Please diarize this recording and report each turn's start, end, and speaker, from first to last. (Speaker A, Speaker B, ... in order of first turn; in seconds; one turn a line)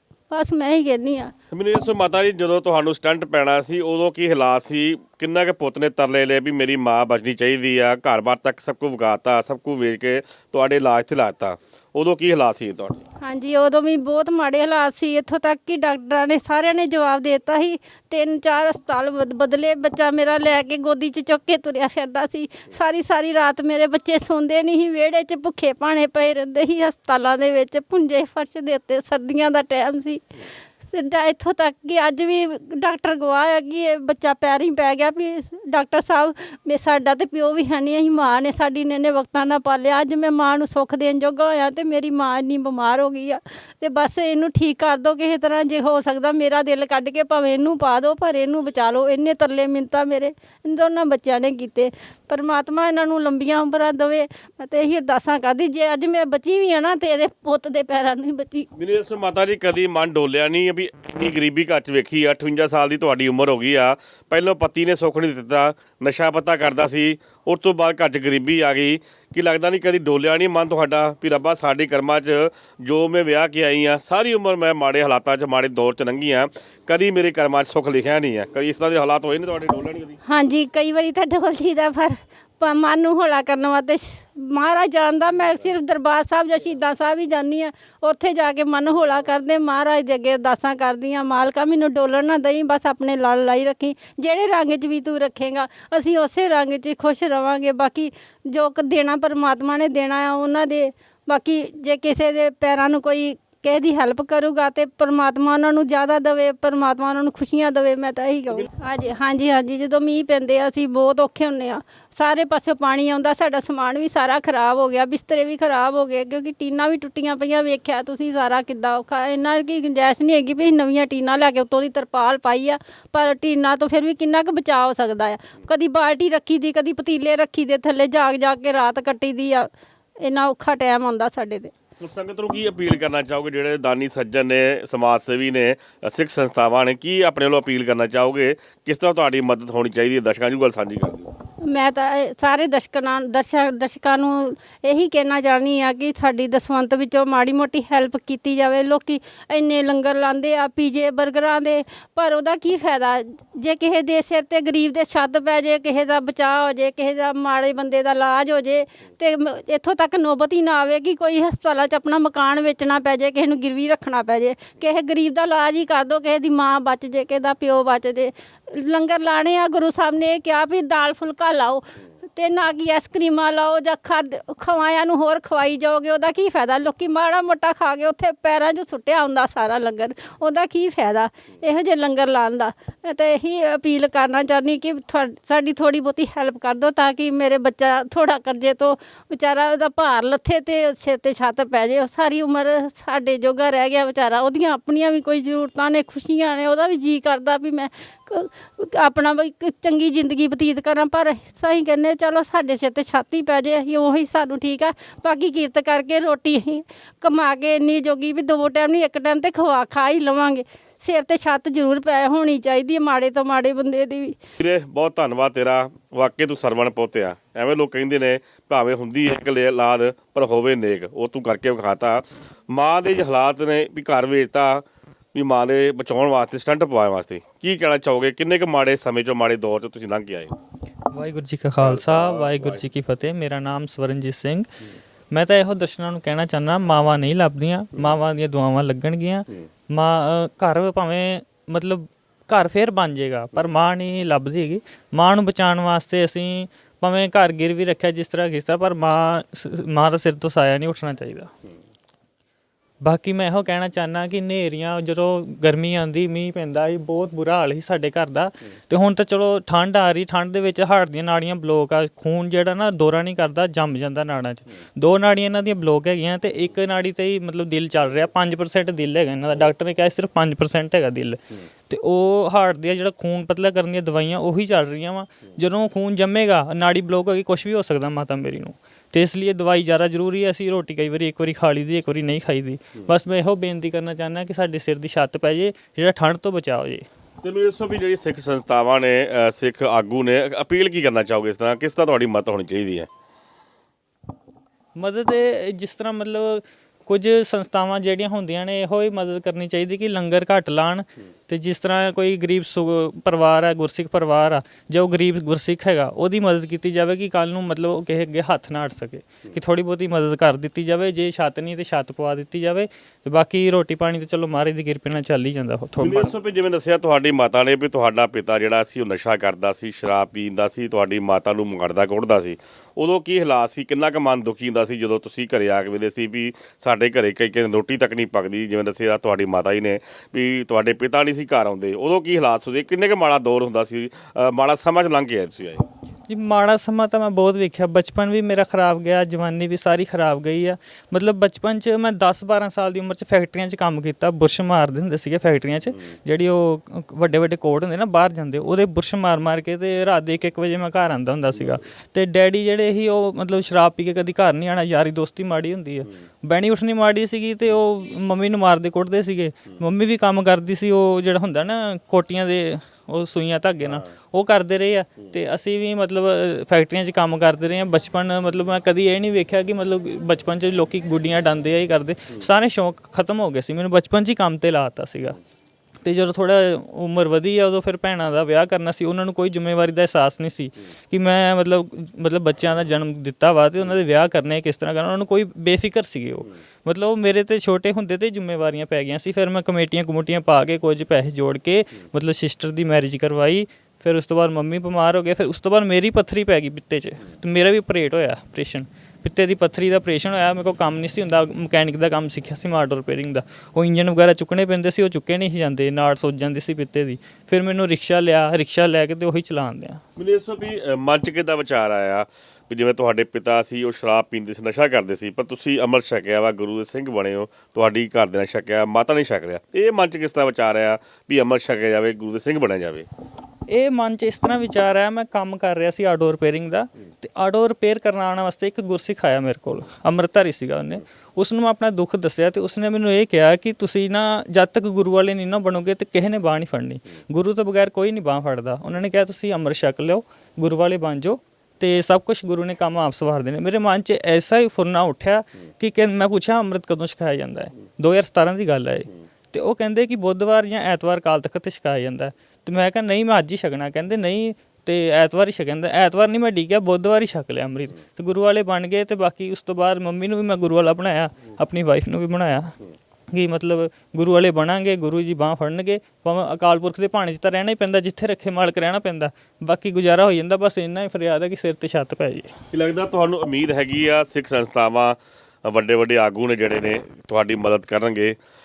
Speaker A: 0.3-1.3
Speaker B: 1.5-13.0
Speaker A: 13.2-58.7
Speaker B: 58.8-80.2
Speaker A: 80.2-131.7
Speaker B: 132.0-141.3
Speaker A: 141.6-214.4
Speaker B: 214.6-230.5
Speaker C: 231.1-234.7
Speaker B: 231.8-232.8
Speaker C: 235.3-251.5
Speaker C: 253.0-287.1
Speaker B: 287.4-293.1
Speaker C: 295.0-316.3
Speaker B: 316.0-335.9
Speaker C: 336.3-375.4
Speaker C: 376.0-410.0
Speaker B: 410.2-423.1
Speaker C: 423.7-462.8
Speaker C: 463.3-472.5
Speaker B: 472.7-478.4